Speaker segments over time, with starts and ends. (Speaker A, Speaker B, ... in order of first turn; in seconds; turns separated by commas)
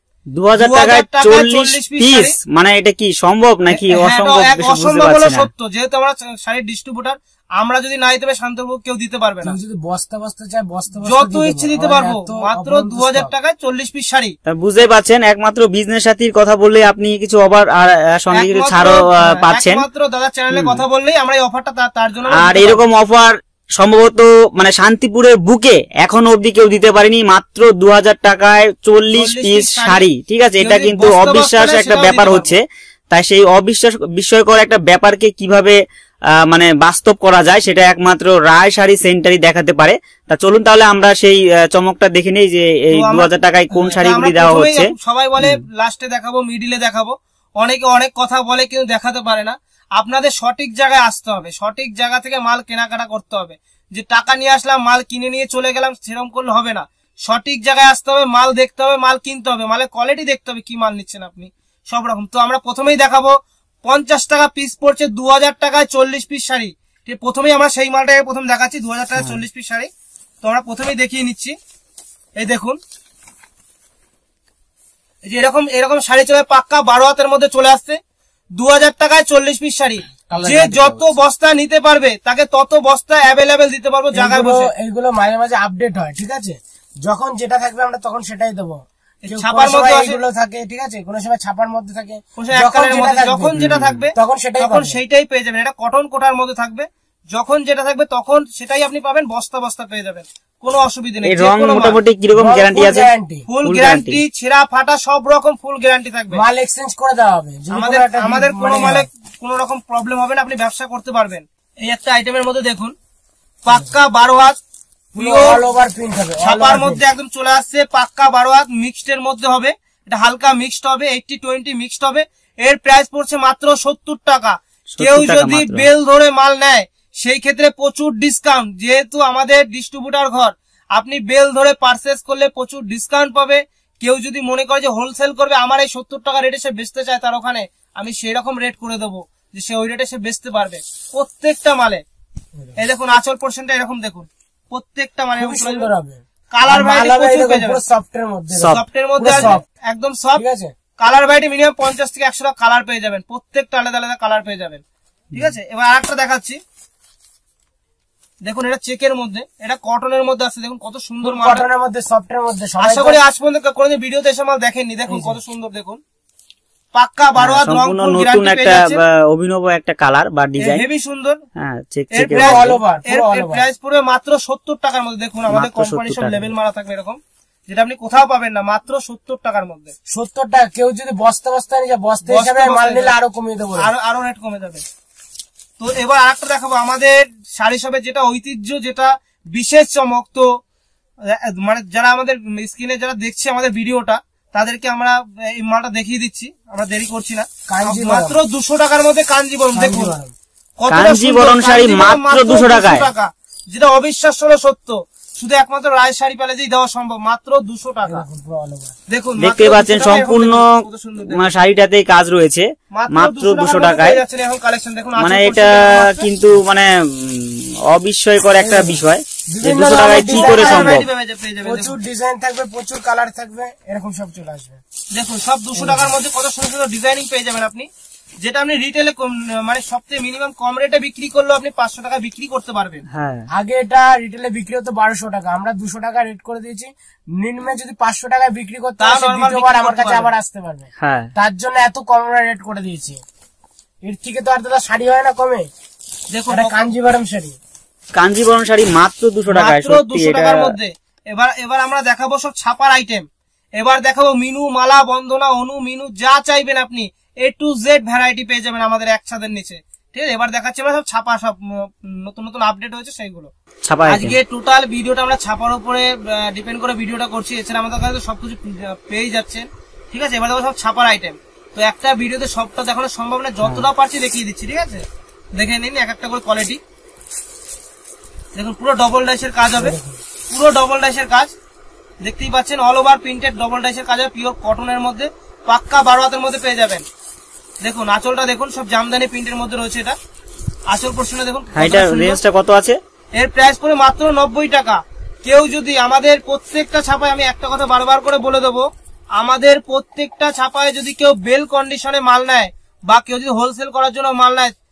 Speaker A: 0.3-5.5, Speaker B: 0.6-2.4, Speaker B: 3.7-9.6, Speaker C: 9.4-13.3, Speaker B: 10.9-14.3, Speaker A: 14.5-19.8, Speaker B: 18.3-22.8, Speaker A: 20.5-20.8, Speaker A: 22.3-35.8, Speaker B: 29.1-30.1, Speaker B: 30.6-32.6, Speaker A: 36.4-45.6, Speaker B: 42.9-63.3, Speaker B: 63.8-69.9, Speaker B: 70.4-71.5, Speaker B: 72.4-72.8, Speaker B: 75.3-78.0, Speaker B: 78.6-84.7, Speaker C: 84.1-95.0, Speaker B: 89.2-90.2, Speaker B: 92.3-102.0, Speaker A: 93.5-94.0, Speaker A: 101.2-103.1, Speaker C: 102.3-103.5, Speaker B: 103.5-106.4, Speaker A: 103.6-104.2, Speaker C: 106.3-109.1, Speaker B: 107.7-112.9, Speaker B: 113.6-114.6, Speaker C: 115.1-117.0, Speaker B: 115.2-115.6, Speaker B: 116.4-142.0, Speaker A: 124.9-125.9, Speaker C: 142.6-142.8, Speaker B: 142.8-145.9, Speaker C: 145.3-149.6, Speaker B: 146.5-147.8, Speaker A: 148.5-149.5, Speaker B: 148.7-150.4, Speaker C: 150.4-150.7, Speaker B: 151.0-154.8, Speaker B: 155.3-156.6, Speaker B: 158.4-161.6, Speaker C: 161.2-163.2, Speaker B: 162.8-166.0, Speaker C: 165.1-165.4, Speaker B: 166.9-169.0, Speaker A: 167.4-170.8, Speaker B: 170.6-171.4, Speaker A: 171.6-172.8, Speaker B: 172.1-179.9, Speaker C: 172.3-173.7, Speaker A: 175.5-176.5, Speaker C: 180.1-183.9, Speaker B: 182.2-183.2, Speaker B: 183.8-184.8, Speaker B: 185.8-190.4, Speaker B: 191.3-200.2, Speaker C: 197.7-198.4, Speaker C: 199.7-200.3, Speaker B: 200.8-208.2, Speaker A: 200.9-203.1, Speaker C: 208.1-208.9, Speaker B: 209.1-211.4, Speaker A: 209.4-210.7, Speaker A: 211.3-214.2, Speaker B: 212.9-216.3, Speaker A: 215.2-221.1, Speaker C: 218.6-221.0, Speaker B: 220.2-221.9, Speaker C: 221.6-224.8, Speaker B: 225.1-227.9, Speaker C: 225.8-226.2, Speaker B: 228.4-233.0, Speaker A: 233.1-233.5, Speaker C: 233.5-243.2, Speaker B: 239.0-240.3, Speaker A: 241.0-241.3, Speaker C: 244.0-245.7, Speaker B: 246.3-246.8, Speaker C: 246.5-247.6, Speaker A: 248.2-250.7, Speaker B: 249.5-253.2, Speaker B: 253.8-263.5, Speaker A: 263.9-264.4, Speaker B: 264.1-275.0, Speaker A: 273.6-273.9, Speaker B: 275.6-276.8, Speaker B: 278.5-279.9, Speaker C: 279.7-280.2, Speaker B: 280.5-281.5, Speaker B: 282.2-287.0, Speaker B: 287.8-290.2, Speaker B: 290.9-292.4, Speaker A: 291.7-293.0, Speaker B: 293.4-298.9, Speaker B: 299.4-304.7